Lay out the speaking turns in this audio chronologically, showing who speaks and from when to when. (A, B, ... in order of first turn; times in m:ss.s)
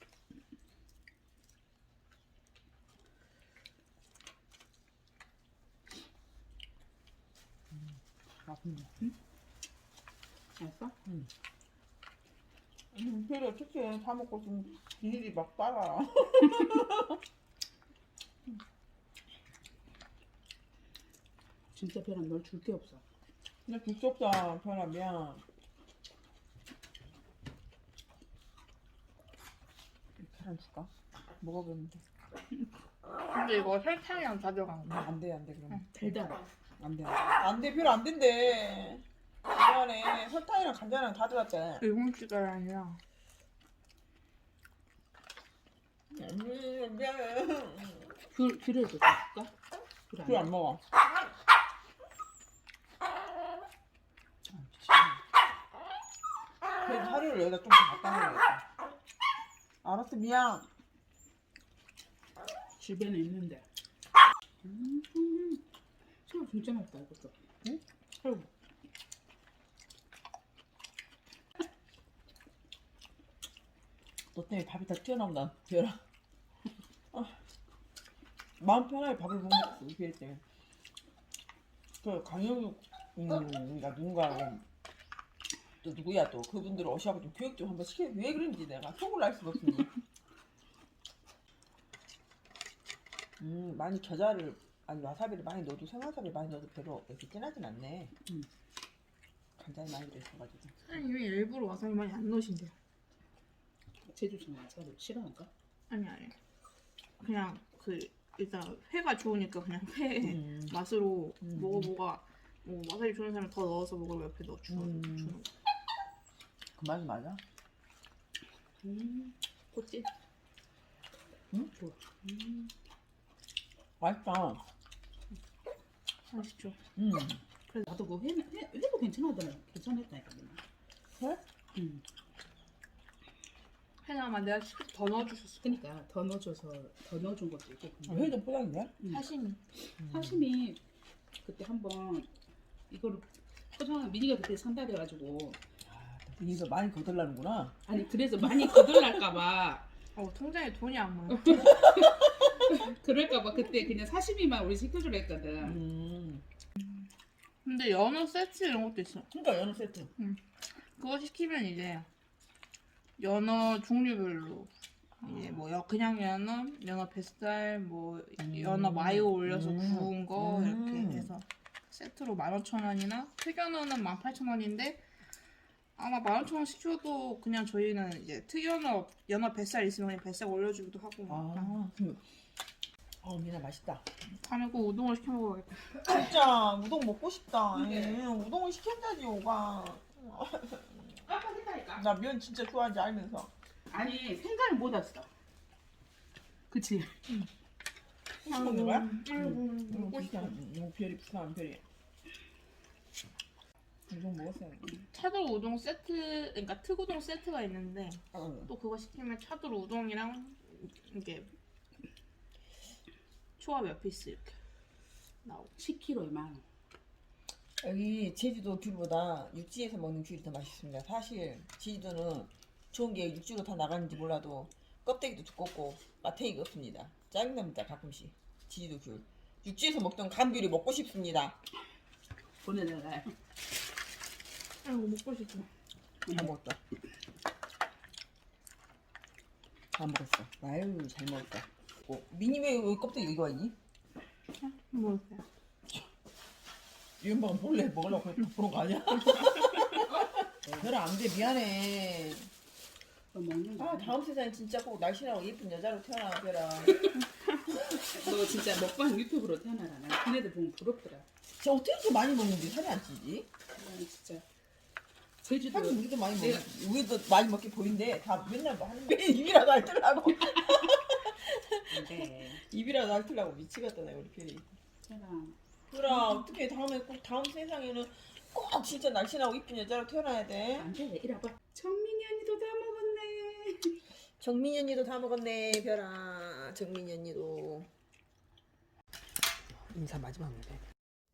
0:08.4-0:09.0 A
0:10.6-0:10.9 B
0:12.9-0:17.2 A
0:21.7-0:23.0 B
0:23.6-0:25.4 A
0:30.2-0:32.0 A
0:33.3-0:35.1 C
0:34.8-0:36.2 A
0:35.9-0:36.4 B
0:36.8-0:41.8 A
0:41.8-0:43.0 C
0:46.1-0:48.1 A
0:48.3-0:49.5 B
0:50.1-0:50.5 B
0:50.2-0:50.8 A
0:54.5-0:55.2 A
0:56.8-0:58.6 A
0:59.8-1:00.7 A
1:02.8-1:03.6 B
1:04.6-1:05.6 B
1:06.2-1:07.4 B
1:08.2-1:08.5 B
1:14.3-1:16.0 A
1:18.6-1:20.4 A
1:22.0-1:24.6 A
1:25.8-1:29.9 A
1:33.4-1:38.1 A
1:39.6-1:40.7 A
1:40.8-1:42.7 C
1:44.0-1:45.5 B
1:45.9-1:46.3 C
1:47.2-1:55.5 C
1:50.2-1:50.8 A
1:51.4-1:51.9 A
1:54.7-1:55.4 A
1:56.8-1:57.4 A
1:58.8-2:00.1 B
2:01.7-2:02.7 B
2:04.0-2:04.6 A
2:06.3-2:06.8 C
2:07.0-2:07.4 A
2:07.8-2:10.6 B
2:11.7-2:12.0 B
2:14.0-2:15.8 C
2:15.6-2:18.4 B
2:18.1-2:18.9 A
2:19.0-2:19.6 C
2:20.0-2:20.8 B
2:21.4-2:22.3 B
2:22.9-2:25.6 B
2:25.9-2:27.8 A
2:27.8-2:29.9 B
2:28.6-2:29.0 A
2:30.2-2:31.7 C
2:31.3-2:35.8 B
2:31.7-2:32.4 A
2:35.6-2:36.4 A
2:37.6-2:39.3 C
2:39.3-2:40.1 A
2:40.2-2:42.1 C
2:43.2-2:44.7 C
2:45.2-2:55.0 C
2:45.3-2:45.6 A
2:48.4-2:51.3 A
2:56.0-3:01.8 C
3:01.3-3:02.2 A
3:03.2-3:04.0 A
3:04.3-3:06.0 C
3:06.0-3:11.2 A
3:07.7-3:08.2 B
3:11.2-3:12.0 B
3:12.0-3:13.5 A
3:13.9-3:15.3 B
3:16.7-3:17.2 B
3:18.4-3:21.8 A
3:18.4-3:20.5 C
3:24.1-3:25.0 A
3:25.1-3:31.5 C
3:28.3-3:28.7 A
3:33.6-3:34.5 C
3:35.4-3:35.7 C
3:35.8-3:36.6 B
3:37.8-3:51.6 A
3:52.6-3:53.3 B
3:54.8-3:55.7 C
3:56.3-3:56.8 A
3:59.9-4:03.7 A
4:04.6-4:05.4 C
4:07.2-4:12.5 A
4:13.3-4:14.1 B
4:13.8-4:17.1 A
4:17.0-4:21.3 B
4:21.6-4:23.5 A
4:23.8-4:24.4 B
4:25.4-4:26.7 B
4:25.7-4:34.7 A
4:31.9-4:32.6 B
4:35.0-4:35.6 B
4:35.9-4:40.9 A
4:40.7-4:44.0 B
4:44.4-4:47.9 A
4:49.9-4:50.8 A